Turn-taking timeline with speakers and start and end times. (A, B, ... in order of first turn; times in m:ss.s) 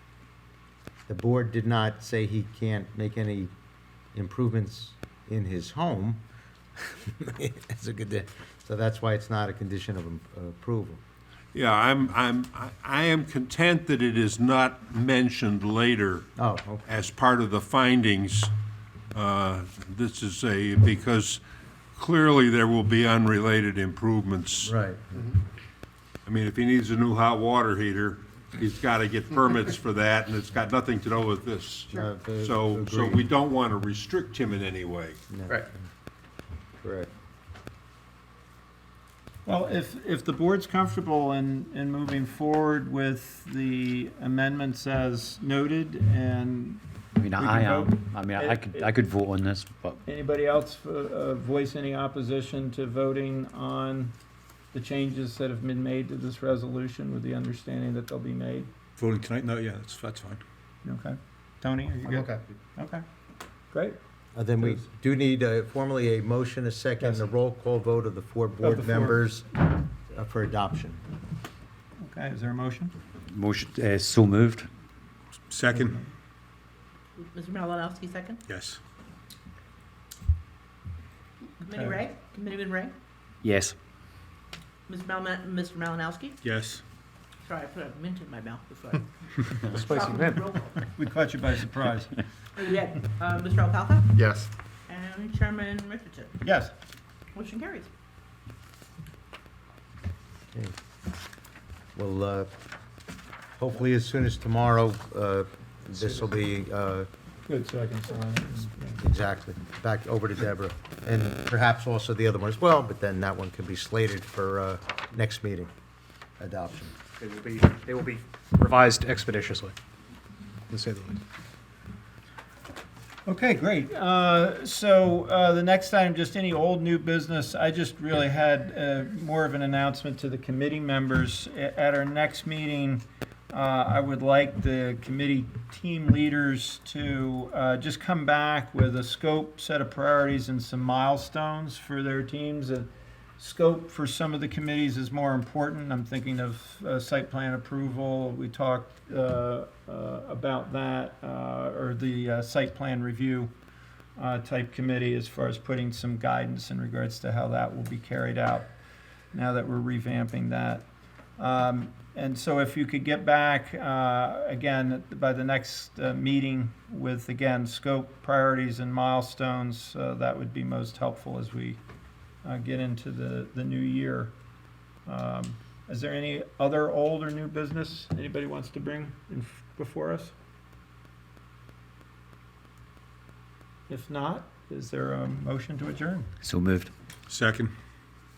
0:01.1-0:03.5 A
0:04.1-0:06.2 A
0:06.8-0:11.0 A
0:11.5-0:16.3 B
0:16.4-0:16.8 A
0:16.8-0:18.5 B
0:19.1-0:21.4 B
0:21.9-0:24.7 B
0:24.6-0:25.3 A
0:26.2-0:35.2 B
0:31.9-0:33.2 A
0:35.3-0:35.8 A
0:36.8-0:37.1 A
0:39.4-0:49.0 C
0:47.2-0:50.0 D
0:50.0-0:54.2 C
0:54.7-0:58.7 C
0:59.0-1:00.4 E
1:00.8-1:03.0 C
1:02.0-1:02.4 A
1:03.7-1:04.0 C
1:04.3-1:09.5 A
1:04.6-1:04.8 C
1:07.0-1:07.3 C
1:08.6-1:09.3 C
1:10.1-1:11.0 A
1:12.0-1:12.9 C
1:13.3-1:14.7 D
1:15.5-1:15.9 B
1:15.7-1:16.1 C
1:17.2-1:18.4 F
1:21.6-1:23.0 F
1:21.7-1:22.0 C
1:23.4-1:23.7 D
1:24.9-1:26.4 F
1:27.4-1:30.8 F
1:29.8-1:30.3 G
1:30.8-1:32.2 C
1:32.6-1:34.3 F
1:34.9-1:36.4 F
1:36.4-1:36.7 C
1:37.3-1:37.9 F
1:41.9-1:42.5 A
1:43.6-1:47.1 A
1:47.5-1:49.0 C
1:49.0-1:55.7 A
1:56.4-1:57.0 A
1:57.2-1:59.8 G
2:00.7-2:01.2 G
2:03.2-2:33.5 C
2:34.2-2:38.7 C
2:39.3-2:40.9 C
2:41.4-2:51.8 C
2:52.4-2:54.3 C
2:55.0-3:00.3 C
3:03.9-3:06.3 C
3:06.4-3:06.9 D
3:07.3-3:07.7 E